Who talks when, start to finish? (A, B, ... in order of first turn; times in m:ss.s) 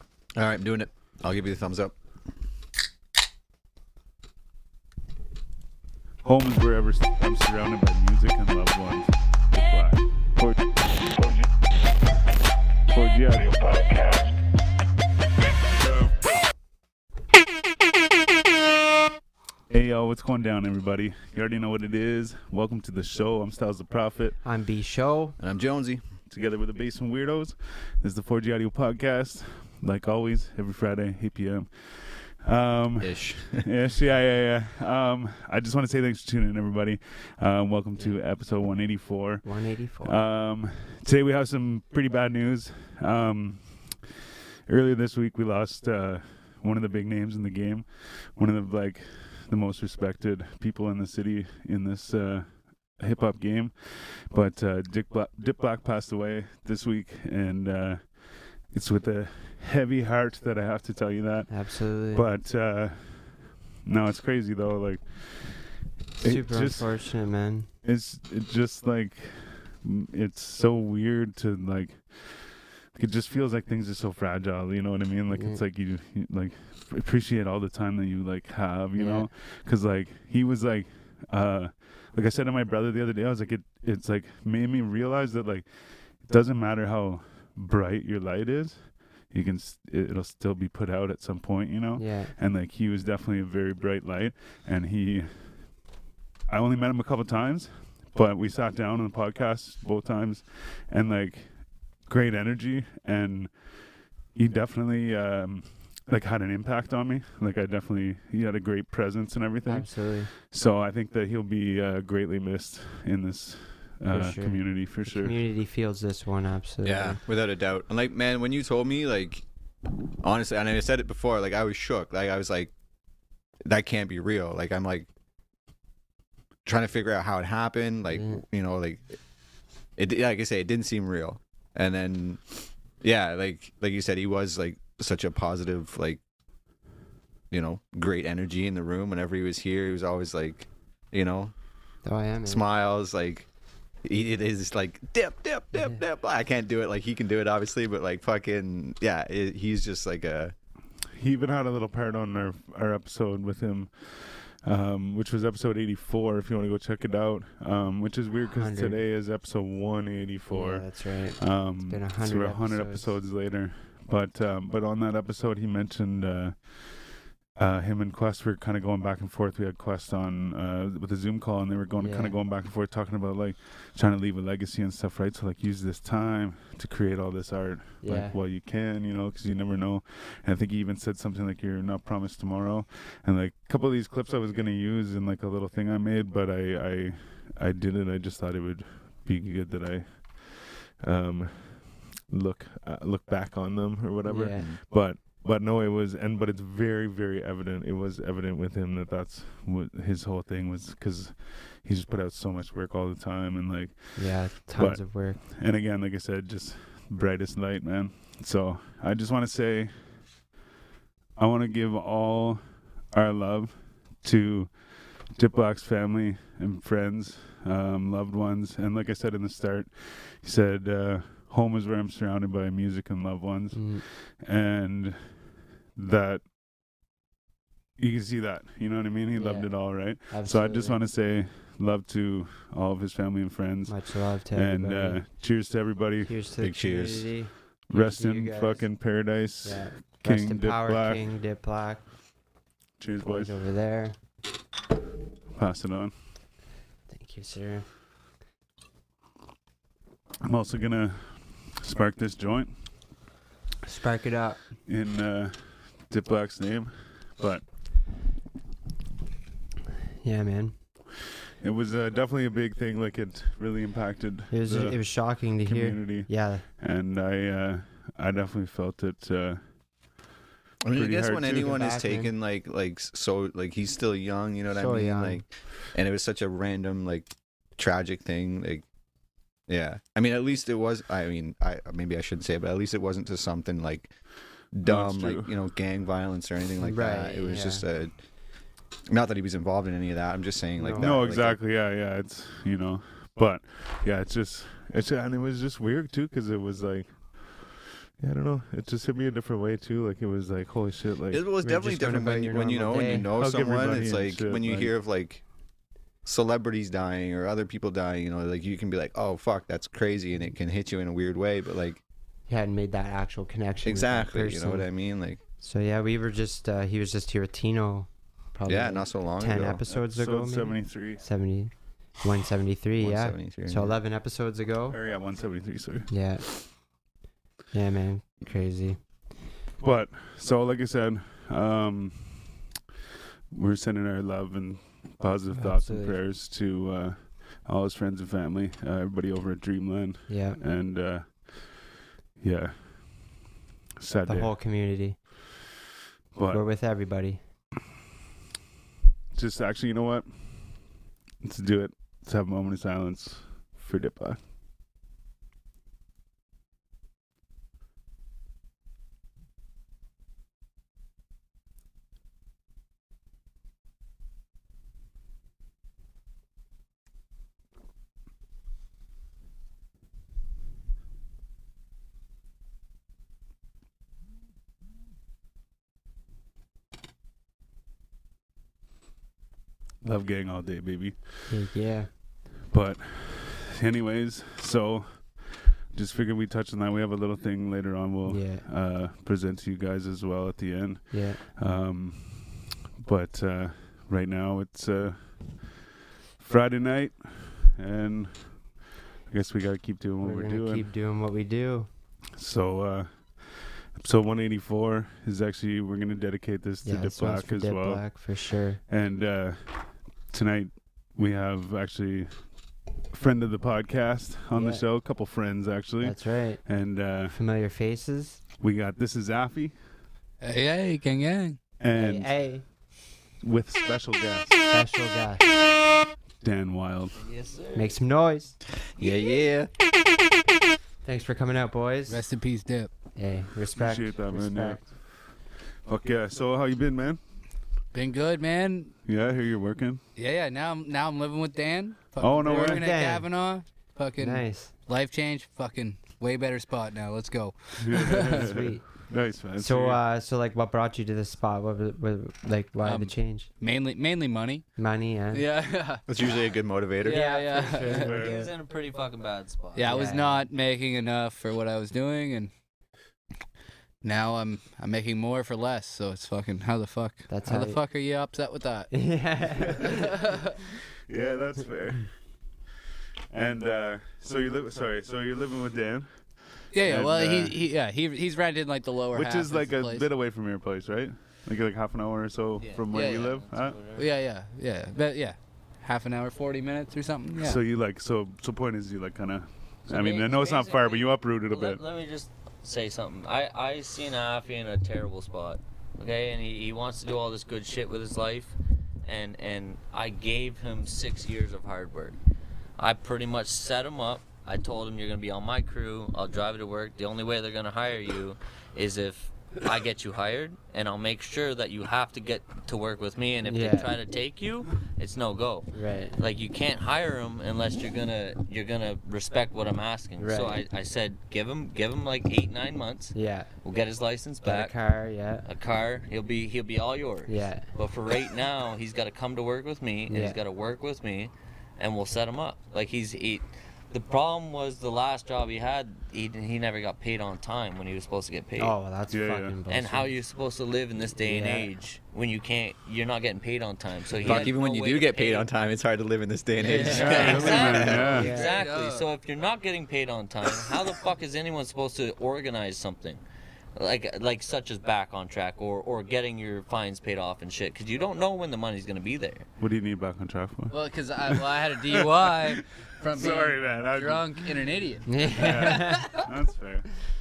0:00.4-0:02.0 A
0:06.2-0:10.6 B
0:12.9-0:14.3 B
0:19.7-0:24.4 B
0:24.4-0:25.4 C
0:25.4-0:26.0 A
0:26.3-0:39.5 B
0:33.0-0:33.7 A
0:39.4-0:40.2 C
0:40.0-0:44.0 B
0:44.7-1:06.9 B
1:01.5-1:02.3 C
1:06.2-1:07.7 C
1:07.8-1:35.7 B
1:15.3-1:15.6 C
1:19.0-1:19.3 C
1:32.0-1:32.3 C
1:36.5-1:43.8 B
1:44.3-1:55.4 B
1:49.7-1:50.3 C
1:54.1-1:57.2 C
1:57.0-1:59.4 A
2:00.2-2:02.7 A
2:03.6-2:05.1 A
2:06.6-2:09.2 A
2:08.1-2:08.4 C
2:10.0-2:16.2 A
2:17.5-2:21.5 A
2:22.0-2:22.7 C
2:22.4-2:23.5 A
2:24.0-2:30.5 A
2:31.2-3:30.2 B
2:38.5-2:39.0 C
2:40.5-2:43.2 C
2:52.0-2:52.4 C
2:58.0-2:58.4 C
3:14.2-3:14.7 C
3:24.2-3:25.4 C
3:31.4-3:46.4 B
3:43.7-3:44.0 C
3:48.0-3:56.3 B
3:49.3-3:51.0 C
3:53.9-3:55.3 C
3:56.2-3:58.9 C
3:56.6-3:57.4 A
3:57.9-4:01.2 B
3:59.6-4:02.1 C
4:03.0-4:03.6 B
4:03.2-4:04.2 C
4:05.6-4:06.1 B
4:07.1-4:07.9 C
4:10.4-4:12.7 B
4:13.8-4:14.6 C
4:14.9-4:17.6 B
4:20.2-4:20.8 C
4:21.6-4:29.6 B
4:24.5-4:26.7 C
4:30.8-4:38.8 A
4:30.9-4:31.7 B
4:31.5-4:32.4 C
4:34.7-4:35.4 C
4:39.7-4:48.2 A
4:44.8-4:45.5 B
4:46.8-4:47.8 C
4:49.1-4:51.6 A
4:50.8-4:51.5 C
4:51.0-5:01.4 B
5:01.3-5:05.4 A
5:01.6-5:03.3 C
5:03.3-5:04.9 B
5:06.2-5:12.0 A
5:12.5-5:14.9 C
5:13.8-5:15.4 A
5:15.6-5:25.0 C
5:18.7-5:19.8 A
5:19.9-5:21.2 B
5:23.0-5:24.0 A
5:24.9-5:26.6 B
5:26.1-5:26.7 C
5:27.7-5:29.0 C
5:29.8-5:32.6 B
5:33.5-5:41.9 B
5:35.5-5:36.2 C
5:40.3-5:40.6 C
5:42.4-5:43.3 B
5:44.0-5:44.6 B
5:44.3-5:45.2 C
5:46.3-5:46.6 B
5:46.5-5:47.4 C
5:49.3-5:50.9 B
5:51.4-5:54.4 B
6:20.0-6:21.6 B
6:21.5-6:22.1 C
6:22.7-6:35.7 B
6:28.3-6:28.7 C
6:31.1-6:31.4 C
6:36.4-6:40.9 B
6:40.2-6:41.9 C
6:42.4-6:48.1 B
6:46.8-6:48.8 C
6:48.9-6:52.3 B
6:53.1-6:57.4 B
6:54.5-6:54.8 C
6:56.0-6:56.7 C
6:57.3-6:58.4 C
6:58.6-6:59.8 B
7:00.4-7:01.6 D
7:01.8-7:02.4 B
7:01.9-7:02.6 C
7:03.4-7:04.6 B
7:04.7-7:05.4 C
7:06.4-7:07.2 B
7:07.2-7:08.0 E
7:07.8-7:08.6 C
7:09.0-7:09.7 A
7:11.0-7:12.3 C
7:12.1-7:12.9 D
7:13.2-7:14.8 C
7:13.8-7:15.3 B
7:15.9-7:17.2 B
7:17.9-7:18.9 D
7:19.1-7:20.0 B
7:20.2-7:28.4 D
7:22.2-7:22.8 B
7:22.4-7:23.3 C
7:24.2-7:24.7 C
7:27.8-7:30.0 B
7:28.3-7:33.5 C
7:32.8-7:34.7 D
7:34.8-7:35.5 C
7:35.4-7:36.0 D
7:36.1-7:37.4 A
7:37.0-7:38.5 C
7:37.0-7:38.0 D
7:37.9-7:38.3 B
7:37.9-7:39.9 E
7:39.8-7:42.5 D
7:39.9-7:40.5 C
7:44.0-7:48.9 D
7:47.3-7:47.8 C
7:48.9-7:50.1 C
7:51.1-7:52.1 B
7:53.3-7:57.6 B
7:56.7-8:00.1 D
7:59.1-8:03.8 B
8:02.6-8:04.1 E
8:02.9-8:03.3 D
8:04.0-8:07.6 D
8:07.4-8:11.8 B
8:09.9-8:22.2 E
8:22.8-8:44.8 E
8:33.4-8:33.9 C
8:35.7-8:36.2 C
8:40.2-8:40.6 C
8:43.1-8:43.5 C
8:44.4-8:45.5 C
8:45.4-8:58.8 E
8:47.3-8:47.7 C
8:50.1-8:50.4 C
8:58.6-9:00.1 C
8:59.1-8:59.6 B
8:59.7-9:05.5 E
9:01.2-9:01.7 C
9:04.2-9:08.3 A
9:06.7-9:13.2 E
9:06.8-9:08.6 C
9:06.8-9:08.3 B
9:08.5-9:09.0 D
9:13.8-9:19.5 E
9:19.6-9:24.5 B
9:20.7-9:25.0 D
9:25.1-9:26.1 C
9:25.3-9:26.9 B